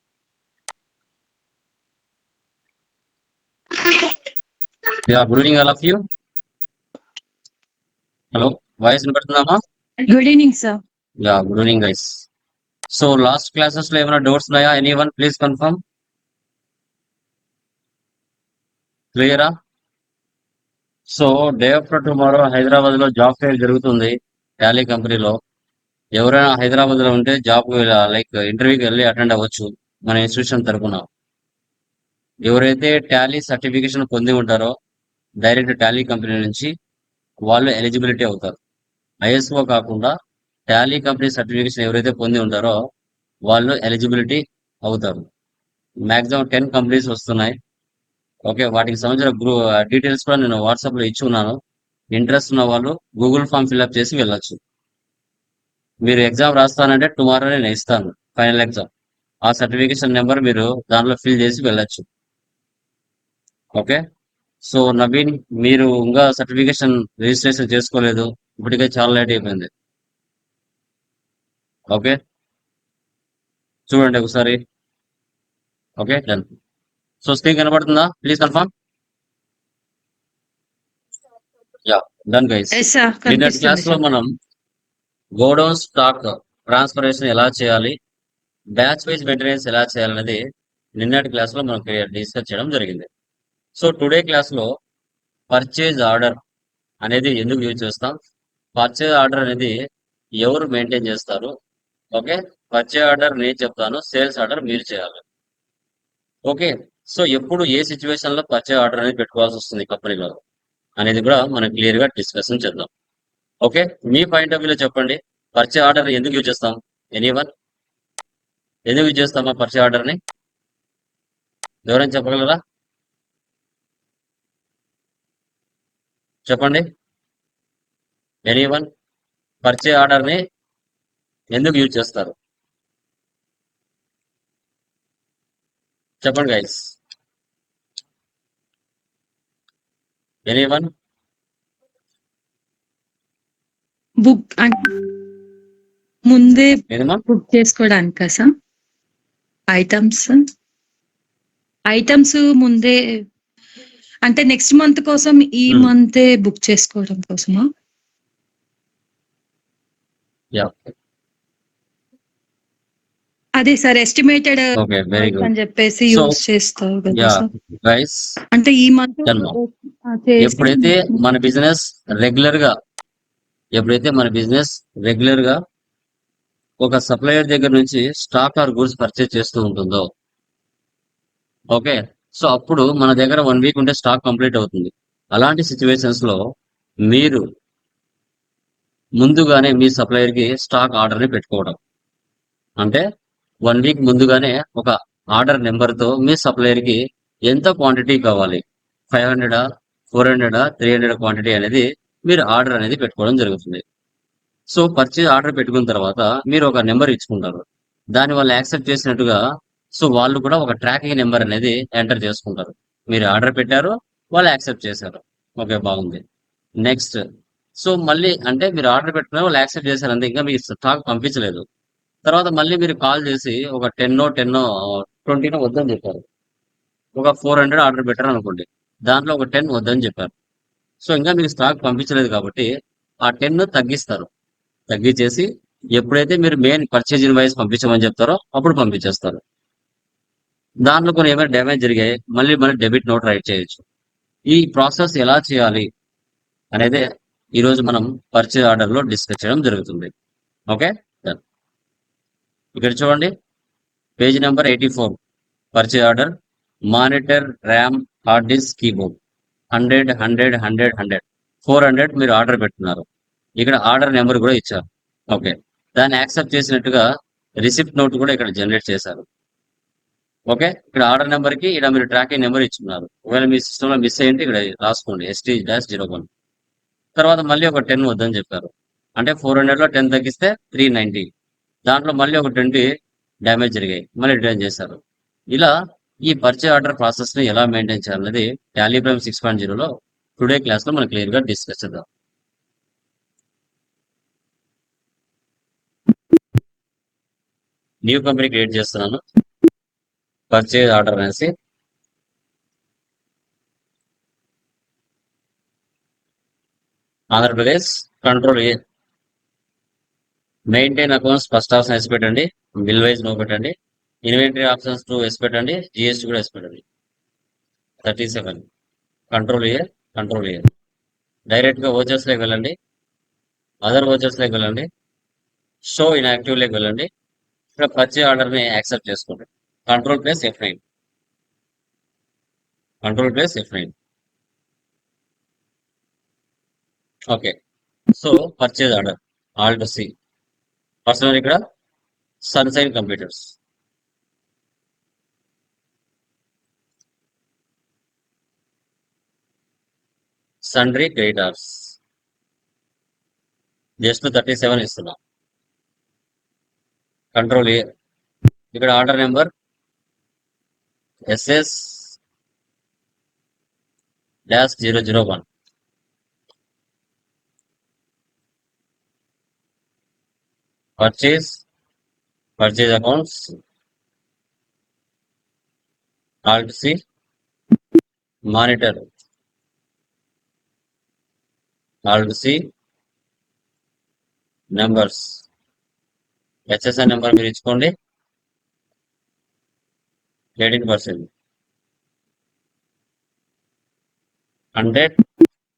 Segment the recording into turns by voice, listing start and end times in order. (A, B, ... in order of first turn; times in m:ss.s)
0:03.8-0:04.1 A
0:05.1-0:06.0 B
0:08.3-0:09.6 B
0:10.1-0:10.8 A
0:11.2-0:12.3 B
0:12.9-0:15.8 B
0:19.1-0:19.5 B
0:21.1-0:25.4 B
0:26.2-0:31.1 B
0:32.4-0:34.7 B
0:35.4-0:36.7 B
0:37.5-0:38.6 B
0:39.2-0:40.2 B
0:40.7-0:42.8 B
0:43.5-0:45.3 B
0:46.1-0:47.6 B
0:48.5-0:51.6 B
0:52.1-0:54.6 B
0:56.0-0:58.9 B
0:59.4-1:02.1 B
1:03.8-1:04.0 B
1:04.6-1:09.7 B
1:11.9-1:12.2 B
1:13.9-1:14.6 B
1:16.0-1:16.5 B
1:17.2-1:18.7 B
1:21.8-1:24.3 B
1:22.7-1:24.0 A
1:25.4-1:28.0 B
1:28.8-1:30.4 B
1:31.0-1:33.1 B
1:33.8-1:34.7 B
1:35.5-1:36.4 B
1:37.0-1:38.2 B
1:38.8-1:39.8 B
1:40.4-1:41.5 B
1:42.2-1:45.2 B
1:46.5-1:50.4 B
1:51.0-1:52.9 B
1:53.6-1:57.5 B
1:58.9-2:00.2 B
2:01.8-2:02.6 B
2:06.5-2:06.9 B
2:08.5-2:08.9 B
2:09.6-2:10.4 B
2:11.5-2:12.4 B
2:16.2-2:17.0 B
2:20.5-2:20.9 B
2:24.2-2:24.9 A
2:26.3-2:28.5 A
2:26.9-2:27.2 B
2:29.7-2:30.4 A
2:31.9-2:33.2 A
2:34.2-2:37.7 A
2:40.5-2:40.9 B
2:43.6-2:44.6 A
2:44.8-2:45.5 B
2:45.2-2:47.5 A
2:46.1-2:46.4 B
2:47.1-2:48.4 B
2:48.5-2:51.2 A
2:49.2-2:49.6 B
2:50.4-2:52.7 B
2:53.8-2:55.6 B
2:56.8-3:00.1 B
3:01.7-3:06.4 B
3:07.1-3:07.4 B
3:09.2-3:11.8 B
3:12.8-3:13.0 B
3:13.6-3:23.8 B
3:24.7-3:29.4 B
3:30.0-3:36.2 B
3:36.8-3:37.2 B
3:37.8-3:41.6 B
3:42.2-3:46.2 B
3:47.2-3:50.3 B
3:51.0-3:52.7 B
3:53.2-3:54.3 B
3:54.9-3:59.4 B
4:00.8-4:03.8 B
4:04.5-4:05.9 B
4:06.7-4:10.1 B
4:10.7-4:11.4 B
4:12.8-4:13.3 B
4:14.2-4:15.2 B
4:15.7-4:16.3 B
4:16.9-4:19.2 B
4:19.7-4:23.1 B
4:23.6-4:27.1 B
4:27.6-4:29.3 B
4:30.5-4:36.3 B
4:37.2-4:41.3 B
4:41.9-4:42.9 B
4:43.4-4:52.1 B
4:58.0-4:59.2 B
5:00.5-5:01.5 B
5:07.3-5:08.8 B
5:10.7-5:13.7 B
5:14.2-5:16.8 B
5:18.0-5:18.6 B
5:19.3-5:20.7 B
5:21.5-5:22.8 B
5:23.8-5:24.9 B
5:25.8-5:27.1 B
5:27.8-5:30.8 B
5:33.0-5:33.9 B
5:37.3-5:37.6 B
5:38.1-5:40.1 B
5:41.1-5:41.6 B
5:42.4-5:43.6 B
5:50.6-5:52.0 B
5:54.0-5:55.2 B
5:57.3-5:57.9 B
5:58.7-5:59.5 B
6:01.3-6:02.2 B
6:04.5-6:05.4 B
6:11.0-6:11.6 B
6:12.6-6:13.6 B
6:16.5-6:17.0 B
6:18.5-6:19.1 B
6:22.1-6:22.7 B
6:24.7-6:25.5 B
6:26.7-6:27.9 B
6:30.6-6:31.3 B
6:34.8-6:35.2 B